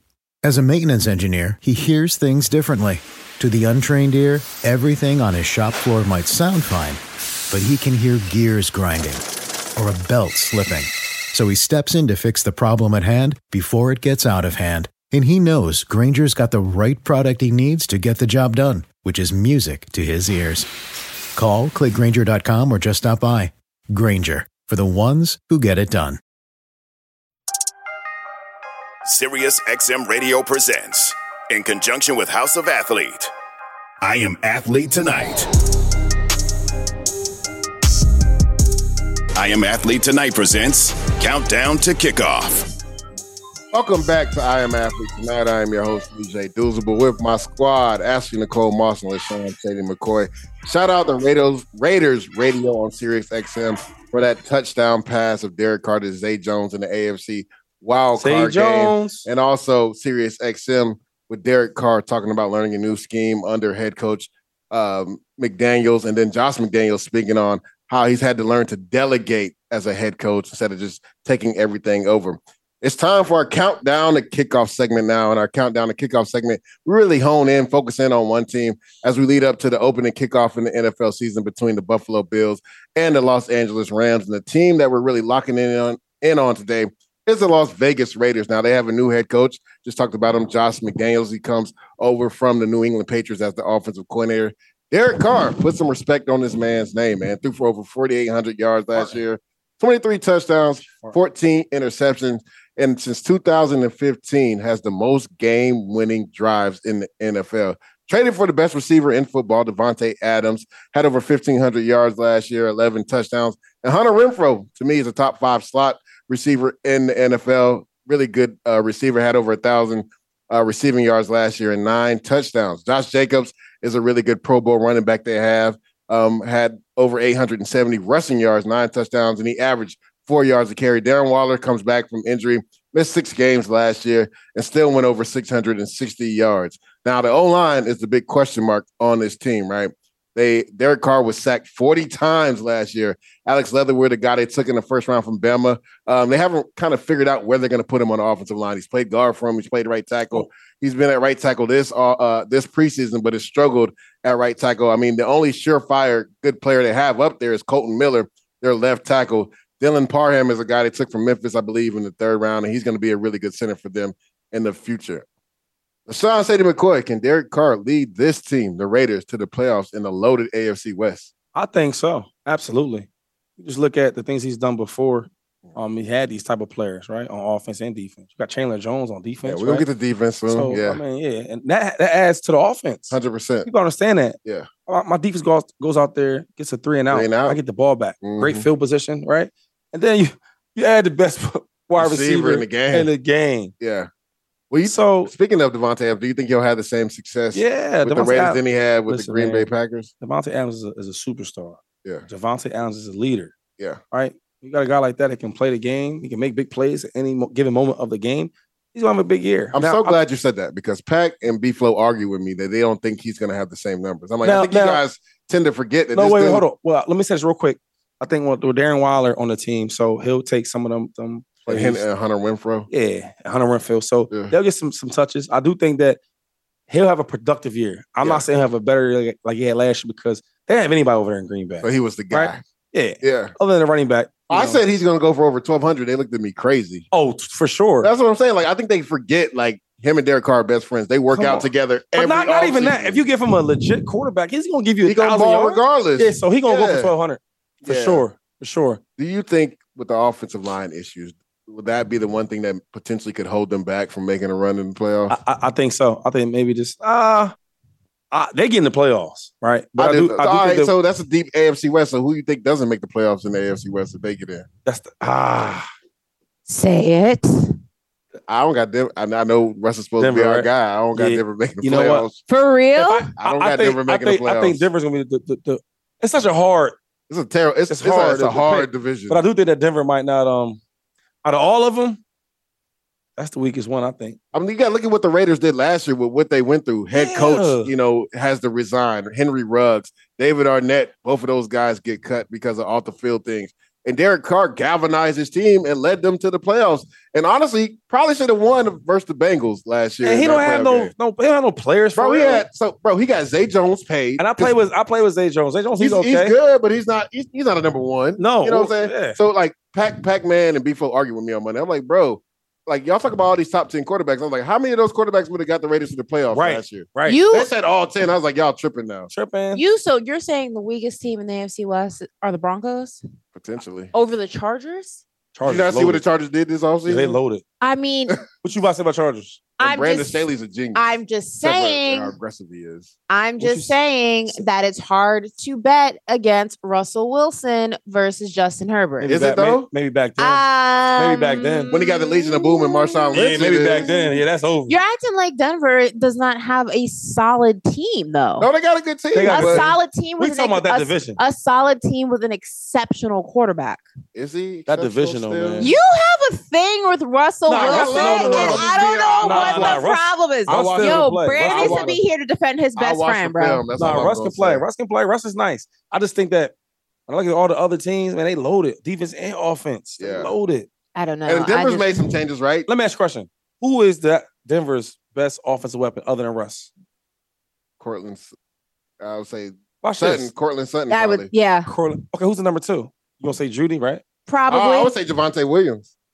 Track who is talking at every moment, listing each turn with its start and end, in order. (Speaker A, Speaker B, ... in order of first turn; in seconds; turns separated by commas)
Speaker A: 0.4-9.2, Speaker A: 9.8-20.7, Speaker A: 21.3-26.2, Speaker B: 29.0-33.3, Speaker B: 34.0-35.5, Speaker B: 39.3-42.7, Speaker C: 43.7-165.2, Speaker D: 58.2-59.3, Speaker D: 100.8-101.1, Speaker C: 166.1-171.3, Speaker D: 171.5-173.1, Speaker D: 173.6-179.8, Speaker C: 179.4-181.0, Speaker D: 180.5-183.2, Speaker C: 183.1-183.7, Speaker D: 183.7-193.7, Speaker C: 187.1-187.6, Speaker C: 188.2-188.7, Speaker C: 192.0-193.1, Speaker C: 193.8-194.1, Speaker C: 194.7-200.1, Speaker D: 194.8-195.3, Speaker D: 197.5-199.7, Speaker D: 200.2-203.5, Speaker D: 204.1-210.2, Speaker C: 209.7-216.6, Speaker D: 214.4-215.0, Speaker D: 216.1-222.0, Speaker C: 221.7-222.9, Speaker D: 222.9-226.2, Speaker D: 226.9-234.8, Speaker C: 231.8-232.6, Speaker C: 233.2-233.5, Speaker C: 234.5-237.0, Speaker D: 237.1-238.1, Speaker C: 238.0-243.2, Speaker D: 241.3-249.0, Speaker C: 245.0-247.1, Speaker C: 247.8-248.2, Speaker C: 249.2-255.3, Speaker D: 255.3-257.5, Speaker D: 258.3-260.9, Speaker C: 260.0-264.6, Speaker D: 264.8-265.9, Speaker E: 266.7-267.7, Speaker C: 268.5-272.4, Speaker D: 270.2-272.3, Speaker E: 272.5-273.3, Speaker D: 273.0-276.9, Speaker C: 273.4-274.8, Speaker C: 277.3-279.4, Speaker D: 277.9-280.8, Speaker D: 281.4-282.2, Speaker D: 283.4-284.4, Speaker C: 284.5-301.1, Speaker D: 287.1-287.9, Speaker D: 300.2-302.6, Speaker C: 302.1-304.7, Speaker D: 304.4-306.5, Speaker C: 306.0-319.3, Speaker D: 308.4-309.4, Speaker D: 316.5-317.4, Speaker E: 317.2-317.7, Speaker D: 319.3-319.8, Speaker E: 319.7-323.2, Speaker C: 323.5-324.1, Speaker E: 324.1-325.2, Speaker D: 325.5-326.2, Speaker C: 325.6-327.4, Speaker D: 327.1-327.6, Speaker E: 327.8-328.4, Speaker D: 328.6-329.6, Speaker E: 329.8-332.3, Speaker C: 329.8-333.1, Speaker E: 333.3-339.3, Speaker D: 333.6-333.9, Speaker D: 339.2-340.6, Speaker C: 339.2-339.9, Speaker E: 340.4-344.3, Speaker D: 341.1-341.9, Speaker C: 341.9-344.1, Speaker D: 343.3-344.9, Speaker E: 344.9-348.7, Speaker C: 348.6-349.9, Speaker D: 349.3-351.4, Speaker E: 349.5-354.0, Speaker C: 354.3-355.9, Speaker D: 354.9-355.9, Speaker E: 355.8-363.9, Speaker D: 357.7-358.9, Speaker C: 357.7-360.1, Speaker D: 359.4-362.1, Speaker C: 360.7-362.2, Speaker C: 362.9-364.8, Speaker D: 363.9-366.7, Speaker D: 367.3-370.9, Speaker C: 370.2-370.5, Speaker E: 371.1-372.3, Speaker C: 371.5-372.9, Speaker D: 372.9-376.9, Speaker C: 378.0-378.5, Speaker C: 379.2-381.5, Speaker D: 380.0-380.5, Speaker E: 381.1-381.9, Speaker D: 381.9-384.2, Speaker E: 384.5-385.1, Speaker C: 384.7-386.1